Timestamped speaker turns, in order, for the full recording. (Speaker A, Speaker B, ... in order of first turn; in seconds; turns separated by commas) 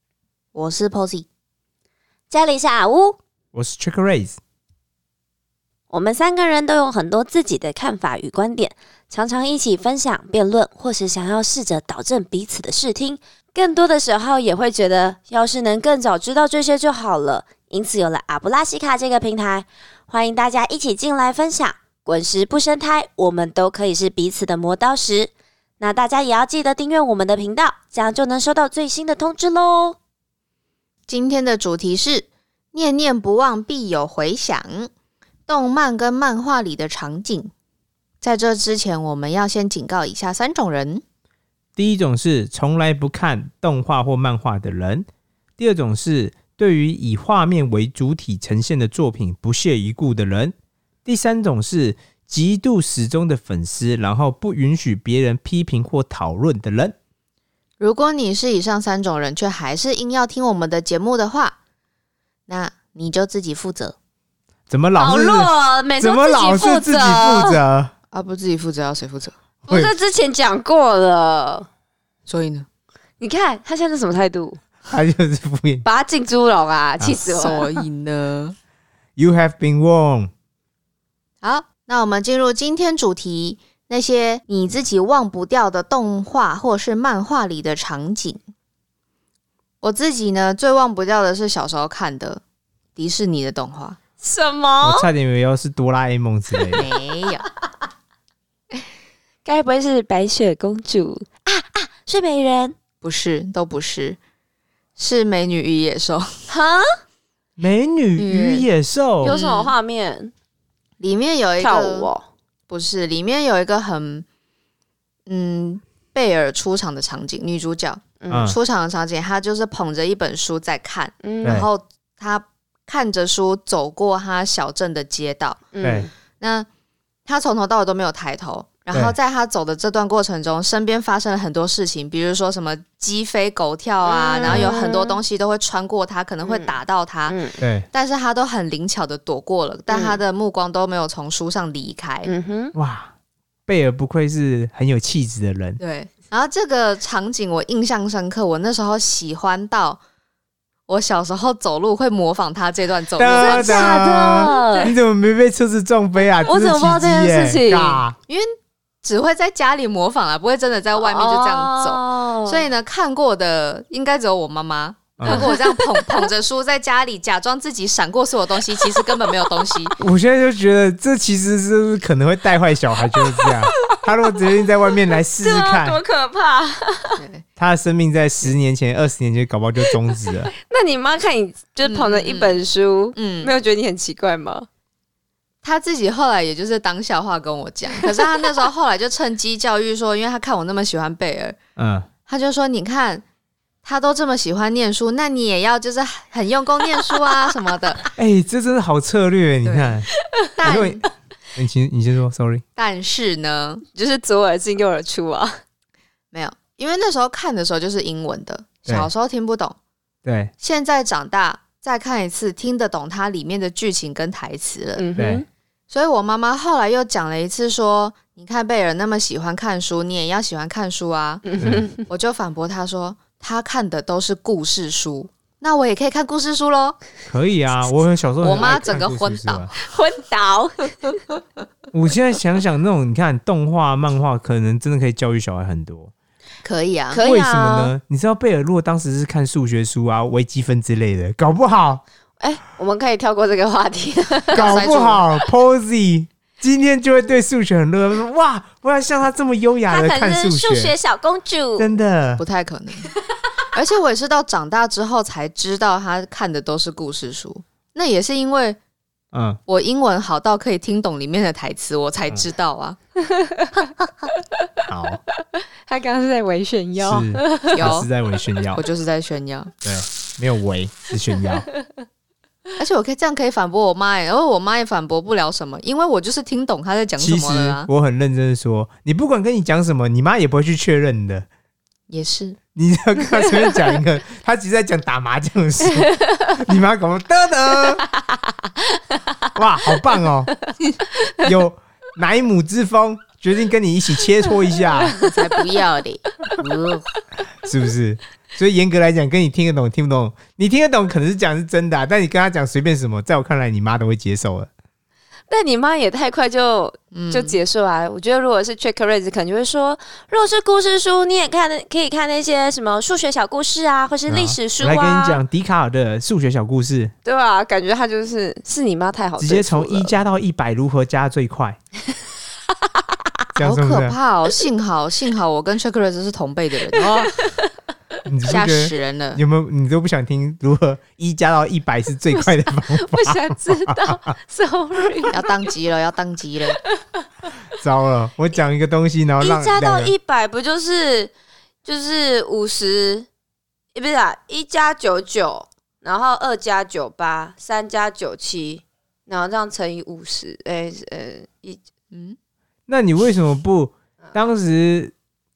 Speaker A: 0.5-1.3, Speaker B: 2.3-3.2, Speaker C: 3.5-4.4, Speaker B: 5.9-30.0, Speaker A: 31.1-34.9, Speaker A: 35.5-37.5, Speaker A: 38.2-41.0, Speaker C: 41.8-45.1, Speaker C: 45.6-50.5, Speaker C: 51.0-56.9, Speaker A: 57.8-61.5, Speaker A: 62.5-64.0, Speaker C: 64.7-67.9, Speaker B: 65.0-67.6, Speaker A: 68.1-69.3, Speaker C: 69.6-69.9, Speaker B: 69.7-71.7, Speaker A: 72.3-72.7, Speaker B: 73.2-74.6, Speaker C: 74.9-75.8, Speaker B: 75.8-77.7, Speaker C: 77.0-77.3, Speaker A: 77.3-78.5, Speaker C: 79.2-80.3, Speaker A: 81.4-88.4, Speaker A: 89.8-92.4, Speaker A: 93.0-94.0, Speaker B: 94.2-95.1, Speaker C: 94.8-96.9, Speaker A: 96.7-97.5, Speaker B: 99.4-102.8, Speaker A: 103.0-104.2, Speaker A: 105.0-106.3, Speaker B: 106.5-106.8, Speaker C: 107.6-109.3, Speaker B: 108.2-108.7, Speaker B: 109.2-110.3, Speaker A: 109.2-109.7, Speaker A: 111.0-112.1, Speaker B: 111.6-112.2, Speaker A: 112.7-114.2, Speaker A: 115.3-125.6, Speaker B: 118.2-118.5, Speaker C: 118.3-118.6, Speaker B: 121.2-121.6, Speaker C: 121.4-121.7, Speaker B: 125.7-126.1, Speaker C: 125.8-126.1, Speaker A: 126.4-126.7, Speaker A: 127.2-137.3, Speaker B: 134.0-135.2, Speaker B: 136.4-137.6, Speaker C: 137.6-137.9, Speaker A: 137.9-142.3, Speaker B: 139.9-140.2, Speaker B: 142.2-142.7, Speaker C: 142.7-143.1, Speaker C: 143.7-145.8, Speaker A: 145.8-150.0, Speaker A: 150.9-154.9, Speaker C: 153.2-158.2, Speaker B: 153.3-154.9, Speaker B: 156.4-158.0, Speaker A: 159.0-169.9, Speaker B: 160.9-162.7, Speaker C: 165.2-165.5, Speaker B: 165.2-166.2, Speaker C: 170.0-176.0, Speaker B: 173.2-173.9, Speaker B: 175.4-177.2, Speaker A: 177.2-177.4, Speaker C: 177.6-180.5, Speaker B: 180.6-184.7, Speaker A: 181.8-182.6, Speaker A: 183.2-183.5, Speaker A: 185.6-191.6, Speaker C: 191.8-192.1, Speaker A: 192.2-193.2, Speaker A: 193.8-198.1, Speaker C: 198.2-200.1, Speaker A: 199.6-200.0, Speaker A: 200.6-201.0, Speaker C: 200.6-202.6, Speaker A: 202.8-203.8, Speaker B: 203.9-205.6, Speaker A: 206.3-209.8, Speaker C: 210.2-210.5, Speaker A: 210.6-215.1, Speaker B: 214.9-215.4, Speaker C: 215.2-215.4, Speaker A: 215.9-227.0, Speaker B: 221.4-222.0, Speaker C: 221.6-221.8, Speaker C: 227.3-229.7, Speaker A: 228.4-229.7, Speaker B: 229.8-231.2, Speaker C: 231.9-236.1, Speaker A: 236.6-237.2, Speaker B: 237.1-237.9, Speaker C: 237.2-242.0, Speaker B: 242.4-244.8, Speaker A: 244.5-245.2, Speaker C: 244.5-250.9, Speaker B: 249.9-251.9, Speaker C: 251.8-252.4, Speaker A: 252.4-253.1, Speaker A: 253.7-258.8, Speaker C: 259.3-259.6, Speaker A: 259.7-263.0, Speaker B: 263.4-264.6, Speaker C: 264.9-265.2, Speaker B: 265.9-267.9, Speaker C: 267.0-268.8, Speaker A: 267.7-268.1, Speaker A: 268.7-269.7, Speaker C: 269.8-271.7, Speaker A: 272.8-277.9, Speaker C: 277.2-281.5, Speaker A: 282.1-282.6, Speaker C: 282.8-288.0, Speaker B: 285.9-286.6, Speaker C: 289.5-290.5, Speaker B: 291.2-291.5, Speaker C: 291.4-295.2, Speaker A: 295.2-297.1, Speaker C: 297.6-304.7, Speaker B: 305.5-315.4, Speaker A: 307.1-307.6, Speaker C: 314.3-317.1, Speaker B: 317.2-320.1, Speaker C: 319.4-321.8, Speaker C: 323.6-324.2, Speaker A: 323.6-327.3, Speaker B: 327.0-327.7, Speaker C: 328.3-334.2, Speaker A: 328.4-329.4, Speaker B: 332.4-335.5, Speaker A: 335.3-336.8, Speaker C: 337.7-340.1, Speaker B: 339.4-341.3, Speaker B: 341.9-343.3, Speaker B: 343.9-351.8, Speaker A: 352.1-352.4, Speaker C: 352.9-355.1